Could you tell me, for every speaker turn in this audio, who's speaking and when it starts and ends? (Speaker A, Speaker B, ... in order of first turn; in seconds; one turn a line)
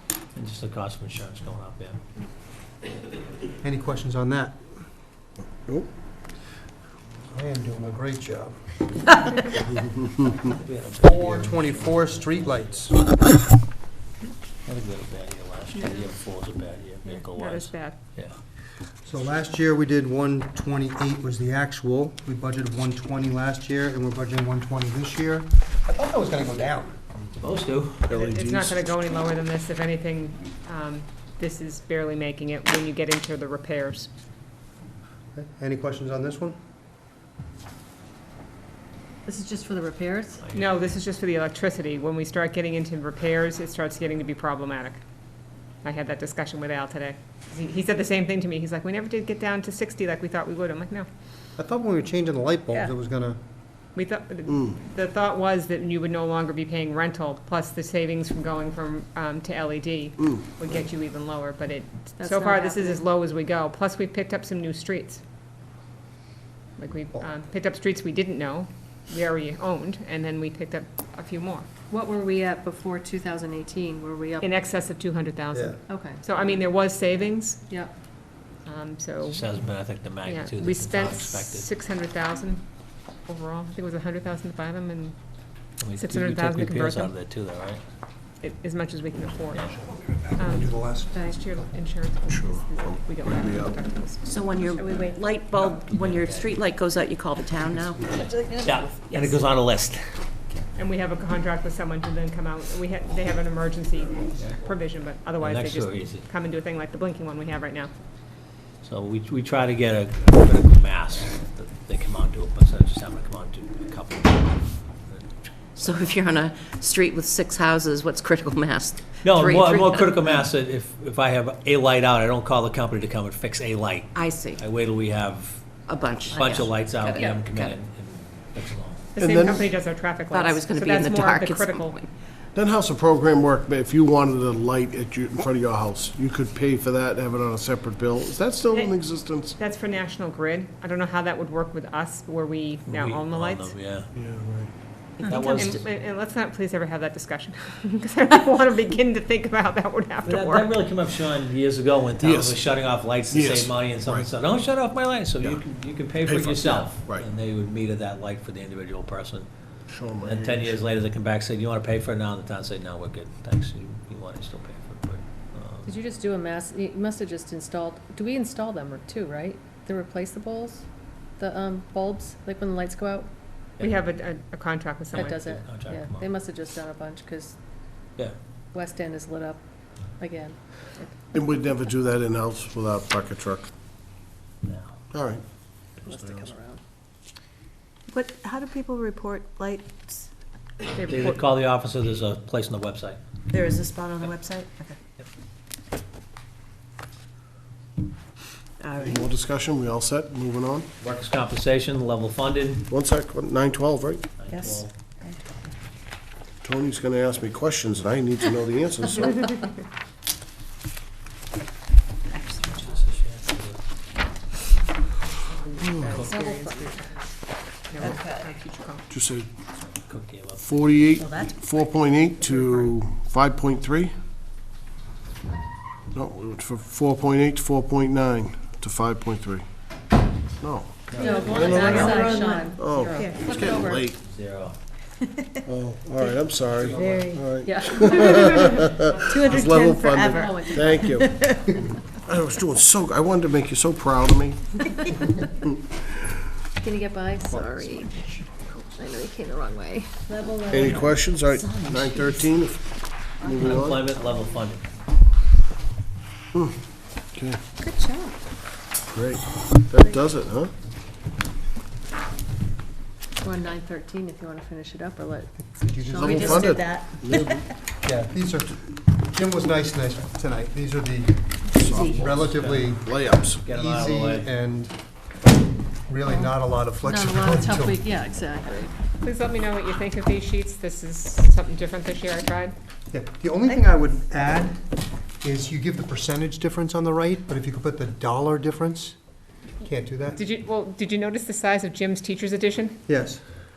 Speaker A: 0.3-2.0
Speaker B: 3.6-4.6
Speaker B: 7.3-8.7
Speaker A: 10.3-12.9
Speaker B: 11.0-12.9
Speaker A: 14.7-18.4
Speaker C: 17.1-18.0
Speaker B: 19.1-27.0
Speaker A: 27.4-28.1
Speaker D: 28.1-28.9
Speaker C: 28.1-34.1
Speaker B: 35.4-36.6
Speaker E: 39.3-40.5
Speaker A: 40.4-41.0
Speaker C: 40.5-45.0
Speaker C: 45.8-51.1
Speaker B: 51.6-53.4
Speaker C: 54.0-65.2
Speaker E: 62.2-63.1
Speaker C: 66.8-71.7
Speaker E: 71.9-74.6
Speaker C: 74.4-77.7
Speaker B: 75.5-75.8
Speaker E: 75.9-76.2
Speaker E: 77.7-77.9
Speaker C: 78.6-79.5
Speaker A: 79.3-81.7
Speaker C: 80.2-82.6
Speaker C: 83.3-85.2
Speaker A: 85.8-87.8
Speaker C: 86.0-87.1
Speaker C: 88.4-89.7
Speaker A: 89.5-89.8
Speaker B: 90.1-91.7
Speaker C: 90.4-94.2
Speaker D: 92.3-93.8
Speaker F: 94.2-98.1
Speaker E: 94.6-95.8
Speaker A: 95.6-96.6
Speaker A: 98.1-100.2
Speaker G: 98.2-98.8
Speaker C: 100.8-107.9
Speaker A: 105.4-106.3
Speaker A: 108.8-115.9
Speaker F: 115.8-120.2
Speaker A: 119.2-125.6
Speaker F: 124.2-124.6
Speaker F: 125.9-127.8
Speaker A: 126.3-129.0
Speaker C: 129.2-132.0
Speaker D: 129.2-129.7
Speaker F: 130.3-132.1
Speaker D: 132.5-139.6
Speaker C: 139.6-143.7
Speaker A: 142.9-144.1
Speaker D: 144.2-144.7
Speaker A: 145.2-145.9
Speaker C: 145.5-150.7
Speaker A: 150.2-159.5
Speaker D: 152.2-152.7
Speaker D: 153.3-154.3
Speaker D: 156.2-157.3
Speaker D: 159.9-160.8
Speaker A: 160.2-165.9
Speaker E: 165.9-170.8
Speaker E: 171.4-173.3
Speaker A: 173.8-174.1
Speaker C: 173.8-175.4
Speaker A: 175.1-176.3
Speaker E: 175.1-177.6
Speaker E: 178.7-179.6
Speaker E: 180.2-181.2
Speaker D: 181.3-183.7
Speaker A: 184.6-184.9
Speaker D: 185.1-185.4
Speaker D: 186.0-186.5
Speaker E: 186.0-186.8
Speaker G: 188.1-190.1
Speaker C: 191.0-191.4
Speaker A: 191.0-193.2
Speaker G: 193.5-194.9
Speaker G: 198.8-199.2
Speaker D: 199.0-200.9
Speaker A: 201.0-202.9
Speaker D: 202.9-204.3
Speaker A: 204.4-204.9
Speaker G: 204.5-205.3
Speaker D: 206.6-209.6
Speaker A: 212.5-213.8
Speaker C: 215.5-217.2
Speaker A: 216.0-216.4
Speaker C: 217.9-219.0
Speaker D: 219.1-219.5
Speaker A: 219.8-220.9
Speaker D: 220.6-224.1
Speaker D: 226.1-229.7
Speaker D: 230.6-234.2
Speaker A: 231.1-232.2
Speaker E: 231.2-234.0
Speaker G: 231.2-233.5
Speaker A: 234.0-234.8
Speaker D: 235.7-245.7
Speaker B: 237.0-237.3
Speaker G: 237.0-237.4
Speaker E: 237.6-238.9
Speaker G: 239.3-241.7
Speaker E: 240.3-241.1
Speaker E: 246.8-251.1
Speaker B: 247.5-248.4
Speaker D: 250.7-252.8
Speaker F: 251.6-252.4
Speaker D: 253.4-254.1
Speaker A: 253.6-254.9
Speaker D: 257.4-257.6
Speaker D: 259.1-260.7
Speaker E: 263.4-266.7
Speaker B: 265.7-266.8
Speaker D: 266.1-267.6
Speaker G: 266.3-267.6
Speaker B: 268.0-271.4
Speaker D: 271.7-272.4
Speaker A: 272.0-274.5
Speaker B: 272.0-273.1
Speaker D: 273.0-273.6
Speaker B: 273.7-274.9
Speaker B: 276.1-278.0
Speaker E: 276.3-278.9
Speaker C: 279.2-282.8
Speaker B: 283.1-284.8
Speaker B: 285.4-289.2
Speaker B: 289.8-290.4
Speaker C: 290.3-293.1
Speaker B: 293.1-293.4